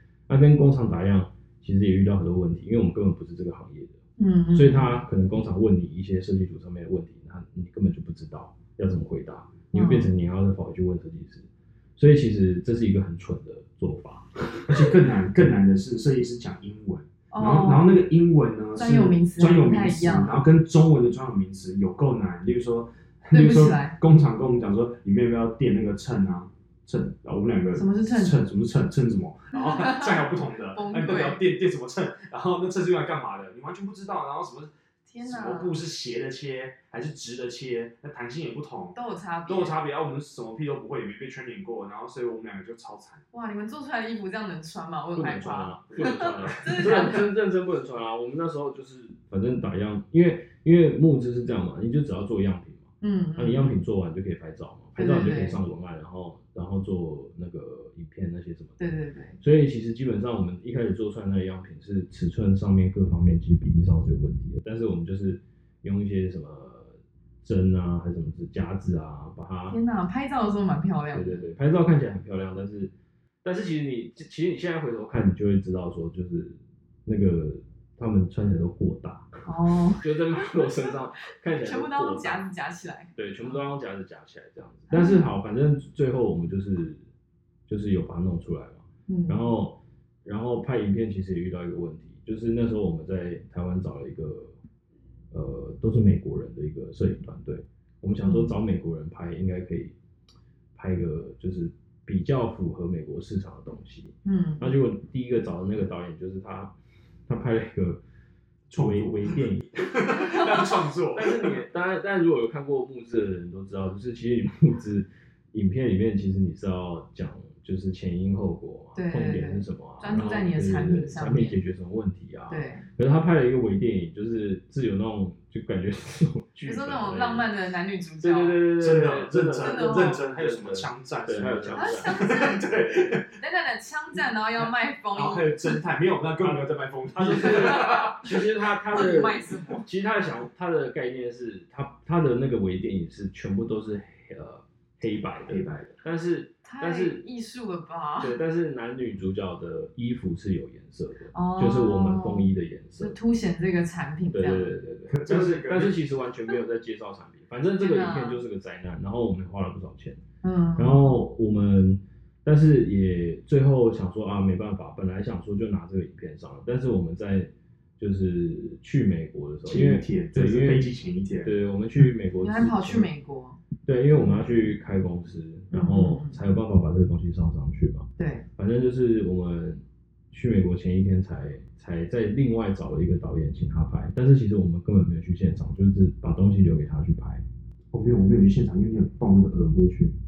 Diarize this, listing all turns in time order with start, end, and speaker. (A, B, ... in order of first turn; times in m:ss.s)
0:00.3-0:04.0 A
0:04.2-0:05.0 B
0:04.5-0:15.0 A
0:09.7-0:10.1 B
0:14.7-0:43.2 C
0:17.3-0:17.9 B
0:18.8-0:20.4 B
0:23.3-0:23.9 B
0:27.7-0:28.4 B
0:29.5-0:31.4 B
0:35.1-0:35.8 B
0:38.9-0:39.8 B
0:43.3-0:47.3 B
0:45.1-0:58.8 A
0:45.9-0:46.8 C
0:53.0-0:53.8 B
0:55.0-0:55.6 B
0:58.8-0:59.4 B
0:59.4-1:09.8 A
1:09.7-1:11.5 B
1:11.1-1:12.9 A
1:13.4-1:19.4 A
1:19.4-1:23.6 B
1:20.0-1:22.5 A
1:23.2-1:27.0 A
1:24.9-1:25.3 B
1:27.7-1:34.5 A
1:29.1-1:29.6 B
1:35.3-1:39.9 A
1:38.2-1:38.5 B
1:40.7-1:46.7 A
1:44.2-1:44.7 B
1:47.3-1:48.0 A
1:48.7-1:51.6 C
1:48.7-2:07.5 A
1:58.9-2:01.6 B
2:02.5-2:02.8 B
2:06.6-2:08.6 B
2:08.2-2:13.2 A
2:08.8-2:13.3 C
2:09.6-2:10.2 B
2:11.7-2:12.7 B
2:13.3-2:15.8 B
2:15.1-2:18.4 C
2:17.2-2:27.2 A
2:17.4-2:18.3 B
2:18.9-2:19.9 B
2:25.4-2:26.0 C
2:26.6-2:28.4 B
2:28.2-2:33.1 A
2:31.3-2:34.7 B
2:34.3-2:40.2 A
2:35.1-2:36.0 C
2:37.8-2:38.4 B
2:40.4-2:41.1 B
2:40.8-2:53.1 A
2:49.6-2:51.5 C
2:52.4-2:53.6 B
2:53.8-2:58.0 A
2:54.1-2:54.5 B
2:55.7-2:56.4 B
2:58.2-2:58.4 B
2:58.6-3:07.4 A
3:07.9-3:10.1 C